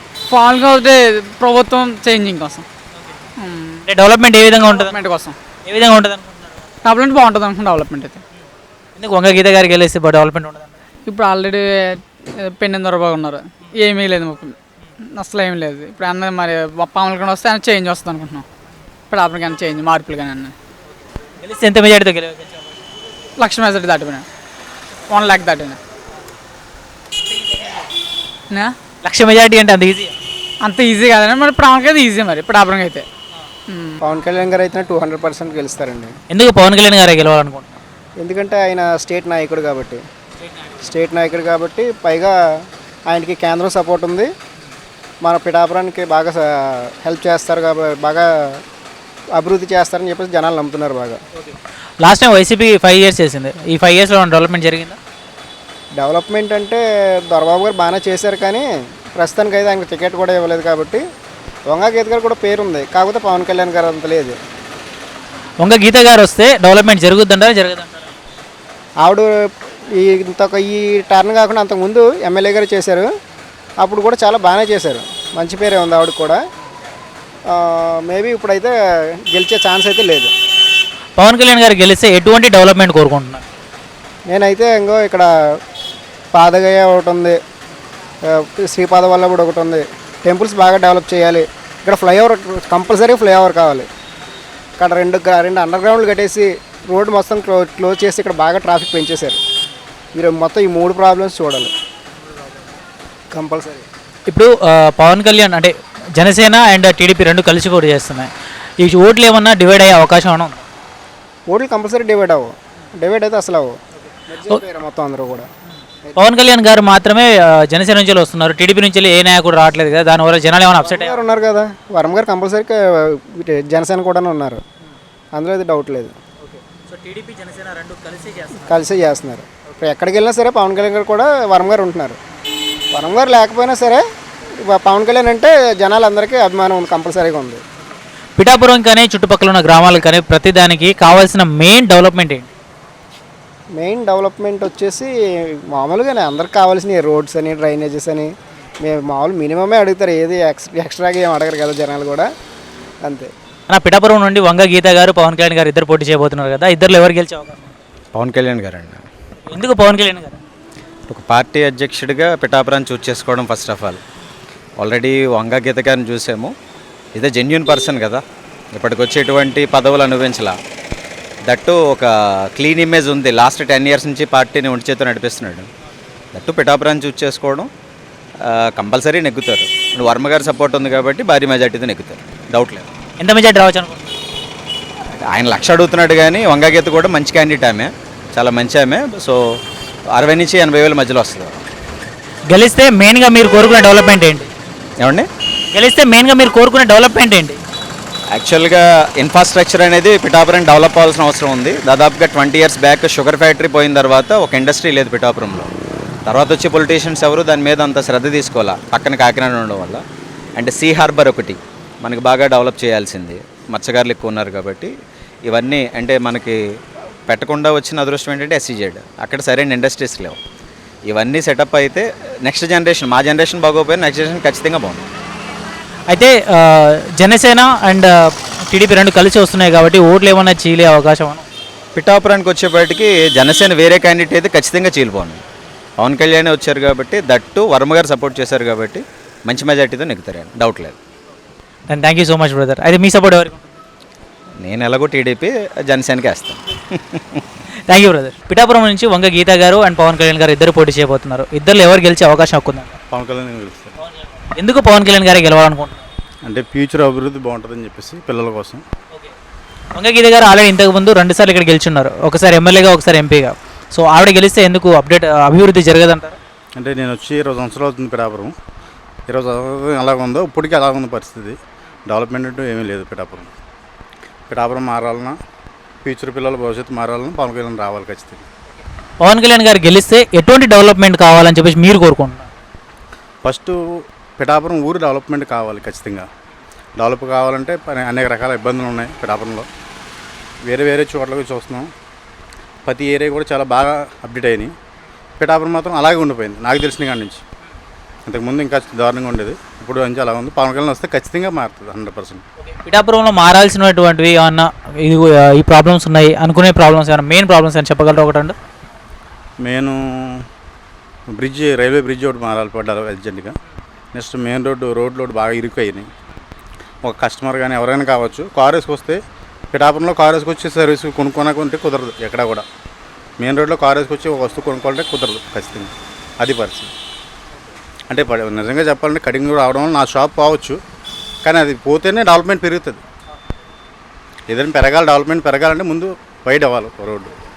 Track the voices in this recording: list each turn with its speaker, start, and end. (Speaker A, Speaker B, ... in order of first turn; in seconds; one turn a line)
Speaker A: 0.3-2.6
Speaker A: 3.4-3.8
Speaker B: 3.8-5.0
Speaker A: 4.6-5.4
Speaker B: 5.6-6.5
Speaker A: 6.8-8.2
Speaker B: 8.9-10.8
Speaker A: 11.1-14.6
Speaker A: 15.1-18.4
Speaker A: 19.1-20.5
Speaker B: 21.4-22.7
Speaker A: 23.4-24.3
Speaker A: 25.1-25.8
Speaker B: 27.4-27.8
Speaker A: 28.5-28.8
Speaker B: 29.0-30.1
Speaker A: 30.6-33.1
Speaker A: 33.7-34.0
Speaker C: 34.0-36.1
Speaker B: 36.3-37.7
Speaker C: 38.2-40.0
Speaker B: 40.4-40.9
Speaker C: 40.8-42.3
Speaker C: 43.1-44.3
Speaker C: 45.2-48.6
Speaker C: 49.4-51.2
Speaker B: 51.4-55.0
Speaker C: 55.9-61.0
Speaker C: 61.7-64.3
Speaker B: 65.6-68.1
Speaker C: 69.0-69.3
Speaker C: 70.0-73.1
Speaker C: 73.8-76.4
Speaker C: 77.5-78.7
Speaker C: 79.3-80.3
Speaker B: 81.2-83.5
Speaker C: 84.3-85.3
Speaker C: 86.3-87.4
Speaker C: 88.3-93.9
Speaker C: 94.8-99.4
Speaker C: 100.1-101.7
Speaker C: 103.3-103.8
Speaker B: 104.3-110.6
Speaker C: 111.5-113.7
Speaker C: 114.3-115.5
Speaker B: 116.2-121.2
Speaker C: 120.8-124.6
Speaker C: 125.3-126.1
Speaker B: 126.4-128.8
Speaker C: 128.7-132.2
Speaker C: 132.9-134.0
Speaker C: 134.6-137.6
Speaker B: 138.4-142.5
Speaker C: 143.8-148.3
Speaker C: 148.8-152.3
Speaker C: 153.0-153.3
Speaker B: 153.7-157.8
Speaker D: 158.1-159.0
Speaker B: 159.4-160.4
Speaker D: 161.1-164.0
Speaker D: 164.8-166.5
Speaker D: 167.1-170.6
Speaker D: 171.4-175.7
Speaker D: 176.3-177.7
Speaker D: 178.4-182.9
Speaker B: 183.2-184.1
Speaker D: 185.2-189.6
Speaker D: 190.1-191.6
Speaker B: 192.5-194.5
Speaker D: 195.0-195.3
Speaker B: 195.7-197.6
Speaker D: 198.3-205.7
Speaker D: 206.2-210.0
Speaker D: 210.6-214.9
Speaker D: 215.4-216.6
Speaker D: 217.3-220.4
Speaker D: 221.1-225.0
Speaker B: 226.1-231.4
Speaker D: 231.9-235.4
Speaker D: 236.0-241.0
Speaker B: 241.9-243.7
Speaker D: 244.6-247.4
Speaker B: 247.9-253.0
Speaker E: 253.1-253.9
Speaker B: 254.0-256.1
Speaker E: 256.4-258.8
Speaker B: 259.9-266.4
Speaker E: 266.8-268.5
Speaker E: 269.3-273.5
Speaker E: 274.5-275.4
Speaker E: 276.0-278.4
Speaker B: 279.2-282.5
Speaker E: 283.4-286.3
Speaker E: 287.0-289.7
Speaker E: 290.6-291.9
Speaker E: 292.9-294.7
Speaker E: 295.4-297.4
Speaker E: 298.2-302.4
Speaker B: 302.6-308.6
Speaker E: 309.6-310.4
Speaker E: 311.3-313.6
Speaker E: 314.1-316.1
Speaker E: 317.0-319.2
Speaker E: 319.7-322.6
Speaker E: 323.4-326.9
Speaker E: 328.1-330.8
Speaker E: 331.4-333.0
Speaker E: 334.5-337.4